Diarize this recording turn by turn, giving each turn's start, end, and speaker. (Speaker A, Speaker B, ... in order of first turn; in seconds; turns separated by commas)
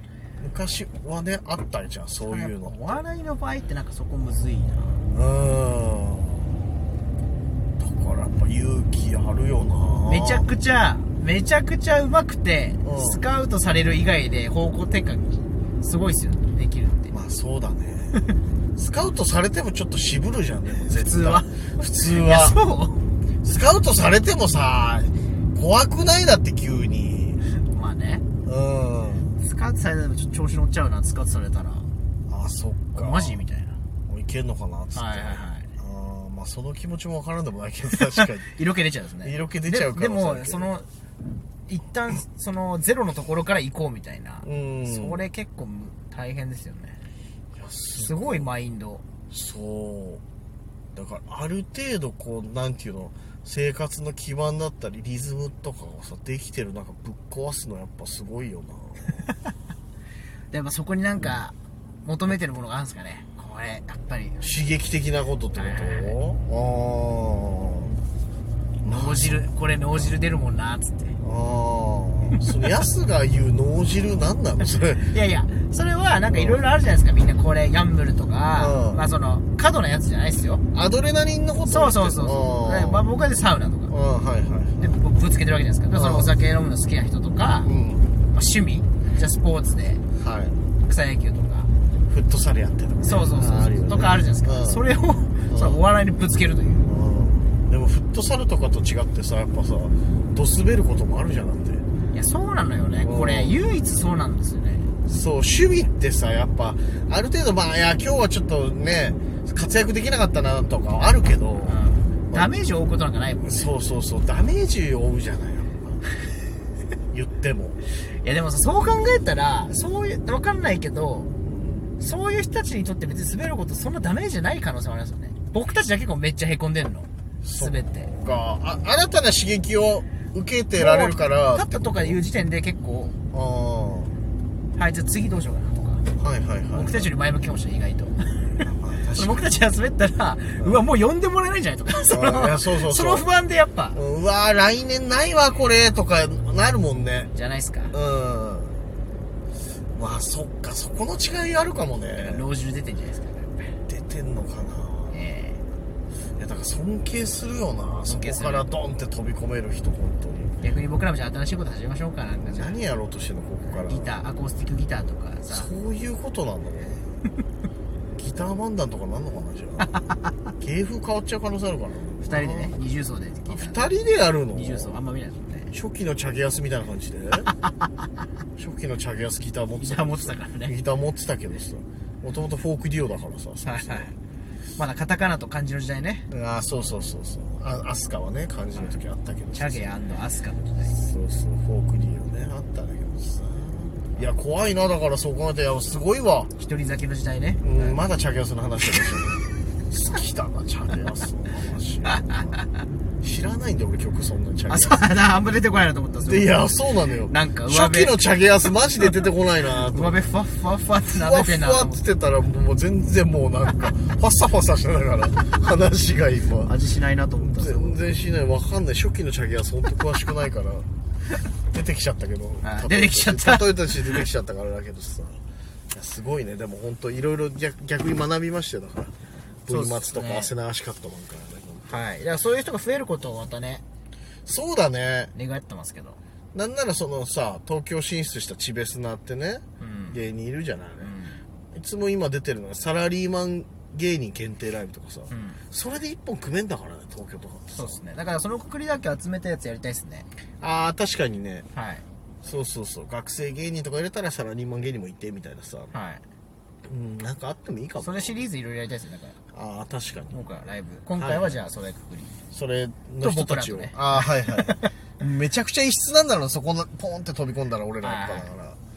Speaker A: 0.4-3.0, Speaker B: 2.2-5.0, Speaker A: 5.1-6.6, Speaker A: 7.8-10.5, Speaker B: 10.0-17.1, Speaker A: 12.8-13.2, Speaker A: 17.1-18.2, Speaker A: 18.8-22.6, Speaker B: 20.9-23.1, Speaker A: 23.4-27.4, Speaker B: 27.7-28.2, Speaker A: 28.4-29.4, Speaker B: 29.4-31.9, Speaker A: 32.3-33.4, Speaker B: 32.9-33.8, Speaker A: 34.1-38.5, Speaker B: 34.9-35.7, Speaker B: 37.9-40.9, Speaker A: 39.2-40.7, Speaker B: 41.7-47.0, Speaker A: 44.4-45.2, Speaker A: 47.5-48.5, Speaker B: 48.0-49.0, Speaker A: 49.3-50.2, Speaker A: 50.9-59.3, Speaker B: 60.5-64.5, Speaker A: 64.4-67.9, Speaker B: 65.5-66.2, Speaker A: 68.8-69.4, Speaker B: 68.8-71.2, Speaker A: 71.2-75.1, Speaker B: 75.1-80.6, Speaker A: 76.3-76.6, Speaker A: 78.6-79.0, Speaker A: 80.7-83.0, Speaker B: 81.7-83.9, Speaker A: 83.9-85.0, Speaker B: 84.8-87.7, Speaker A: 85.9-86.3, Speaker A: 87.6-88.1, Speaker B: 88.3-90.0, Speaker A: 90.2-90.6, Speaker B: 90.8-91.7, Speaker A: 92.1-94.8, Speaker B: 93.0-96.9, Speaker A: 95.5-95.8, Speaker A: 96.8-101.8, Speaker B: 102.1-104.9, Speaker A: 103.0-103.6, Speaker A: 105.0-112.5, Speaker B: 111.7-113.7, Speaker A: 113.4-116.0, Speaker A: 117.1-117.8, Speaker B: 118.1-121.3, Speaker A: 121.4-121.9, Speaker B: 122.0-128.1, Speaker A: 127.4-132.2, Speaker B: 130.8-133.2, Speaker A: 133.3-134.1, Speaker B: 134.8-136.0, Speaker A: 136.2-137.1, Speaker B: 136.7-138.5, Speaker A: 138.6-139.5, Speaker B: 139.1-144.0, Speaker A: 140.6-140.8, Speaker A: 142.1-143.3, Speaker A: 143.9-147.3, Speaker B: 147.3-147.9, Speaker A: 147.9-148.8, Speaker A: 149.9-152.4, Speaker B: 152.2-153.7, Speaker A: 153.9-155.2, Speaker B: 155.1-155.6, Speaker A: 156.4-160.5, Speaker B: 158.0-158.7, Speaker B: 160.6-162.8, Speaker A: 162.4-164.2, Speaker B: 163.7-165.7, Speaker A: 165.5-167.0, Speaker A: 168.2-170.0, Speaker A: 170.6-172.7, Speaker B: 172.2-173.9, Speaker A: 173.5-175.0, Speaker B: 174.5-175.7, Speaker A: 175.7-177.5, Speaker A: 178.6-184.1, Speaker B: 179.8-180.8, Speaker B: 183.6-184.1, Speaker B: 184.7-186.3, Speaker A: 186.3-189.9, Speaker B: 189.5-190.9, Speaker A: 190.8-196.5, Speaker B: 196.6-198.0, Speaker A: 197.6-202.6, Speaker A: 203.2-205.0, Speaker B: 204.7-206.7, Speaker A: 206.2-210.2, Speaker B: 207.3-208.2, Speaker B: 209.9-212.0, Speaker A: 211.1-216.7, Speaker B: 216.6-218.0, Speaker A: 217.4-220.9, Speaker A: 221.7-225.4, Speaker B: 222.6-224.2, Speaker A: 225.9-229.1, Speaker B: 229.7-230.5, Speaker A: 229.7-232.0, Speaker B: 231.8-233.8, Speaker A: 234.4-235.3, Speaker B: 235.3-236.2, Speaker A: 236.5-241.1, Speaker B: 239.8-240.2, Speaker B: 241.0-241.4, Speaker A: 241.7-248.0, Speaker B: 245.3-245.6, Speaker B: 247.7-250.3, Speaker A: 250.6-251.7, Speaker B: 251.7-252.0, Speaker A: 252.4-255.9, Speaker B: 255.9-256.2, Speaker A: 256.9-258.5, Speaker B: 258.0-259.4, Speaker A: 259.5-260.4, Speaker B: 260.3-262.4, Speaker A: 261.2-261.6, Speaker A: 262.5-268.8, Speaker B: 263.2-264.9, Speaker B: 268.0-268.5